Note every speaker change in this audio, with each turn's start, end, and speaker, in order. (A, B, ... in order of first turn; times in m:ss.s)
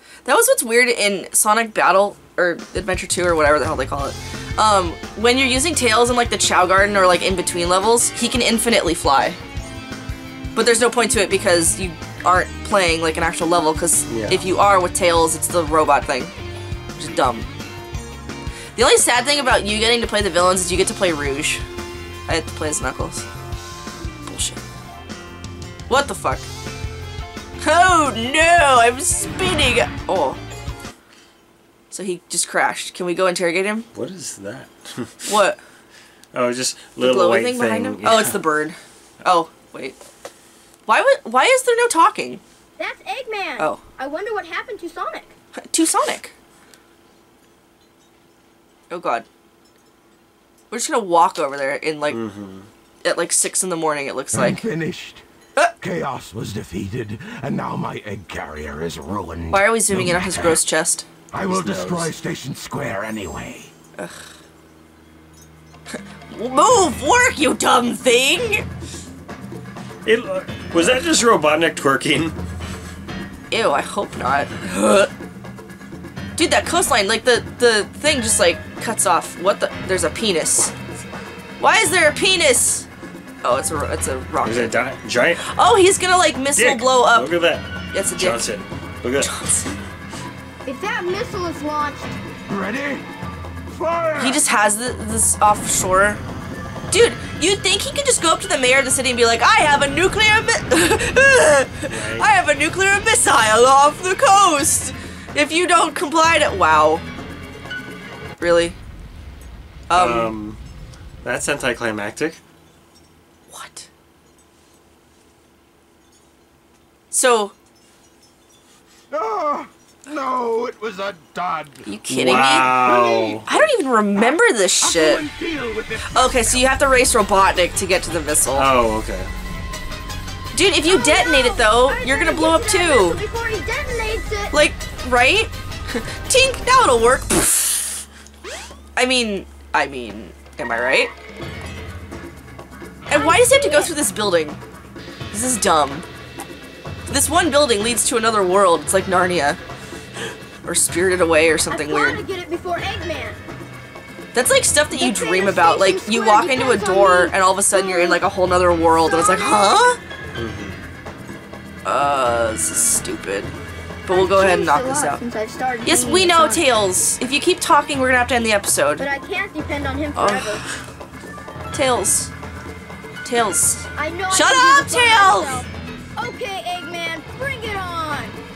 0:00.2-0:09.4 A
0:10.5-0:16.3 A
0:14.1-0:14.5 B
0:17.0-0:17.5 A
0:18.7-0:21.6 A
0:22.3-0:23.2 A
0:24.2-0:24.6 A
0:25.9-0:26.5 A
0:27.6-0:30.4 A
0:31.9-0:33.9 A
0:33.9-0:35.3 B
0:35.3-0:35.6 A
0:36.3-0:38.4 B
0:37.0-0:40.0 A
0:40.8-0:42.4 A
0:42.8-0:45.3 C
0:45.6-0:46.3 A
0:48.9-0:49.2 A
0:50.7-0:52.2 A
0:52.1-0:52.7 B
0:53.0-0:54.6 A
0:54.3-0:55.2 D
0:55.8-1:00.6 D
0:59.5-1:01.0 A
1:01.3-1:03.7 D
1:01.5-1:02.1 B
1:05.9-1:08.6 A
1:10.0-1:12.4 B
1:13.5-1:15.1 A
1:16.4-1:20.7 A
1:21.6-1:22.9 A
1:23.4-1:24.8 A
1:24.4-1:25.4 B
1:25.4-1:27.4 A
1:26.5-1:29.3 B
1:27.9-1:28.5 A
1:29.2-1:29.7 A
1:30.6-1:32.1 C
1:32.5-1:33.1 D
1:33.7-1:34.4 D
1:34.2-1:36.2 A
1:36.9-1:47.0 A
1:41.9-1:42.3 B
1:48.4-1:48.8 A
1:49.9-1:50.4 A
1:49.9-1:50.6 B
1:51.2-1:52.4 B
1:53.5-1:53.9 A
1:57.1-1:57.5 A
1:59.1-2:01.9 D
2:01.8-2:05.2 A
2:02.1-2:03.4 B
2:02.7-2:03.4 D
2:04.2-2:06.6 D
2:06.1-2:08.7 A
2:08.5-2:09.3 B
2:10.5-2:13.2 A
2:10.8-2:14.6 C
2:14.5-2:17.8 A
2:19.0-2:21.1 A
2:23.1-2:24.6 A
2:23.1-2:23.9 C
2:25.3-2:26.0 A
2:27.1-2:29.6 A
2:30.6-2:32.2 A
2:31.7-2:33.4 C
2:34.3-2:40.0 A
2:34.9-2:38.2 C
2:38.9-2:39.8 C
2:40.4-2:40.8 B
2:41.8-2:43.5 A
2:44.0-2:45.2 A
2:44.1-2:46.6 C
2:45.8-2:49.1 A
2:49.0-2:50.6 C
2:50.1-2:50.6 A
2:51.7-2:52.3 A
2:53.2-2:55.6 A
2:54.0-2:58.4 C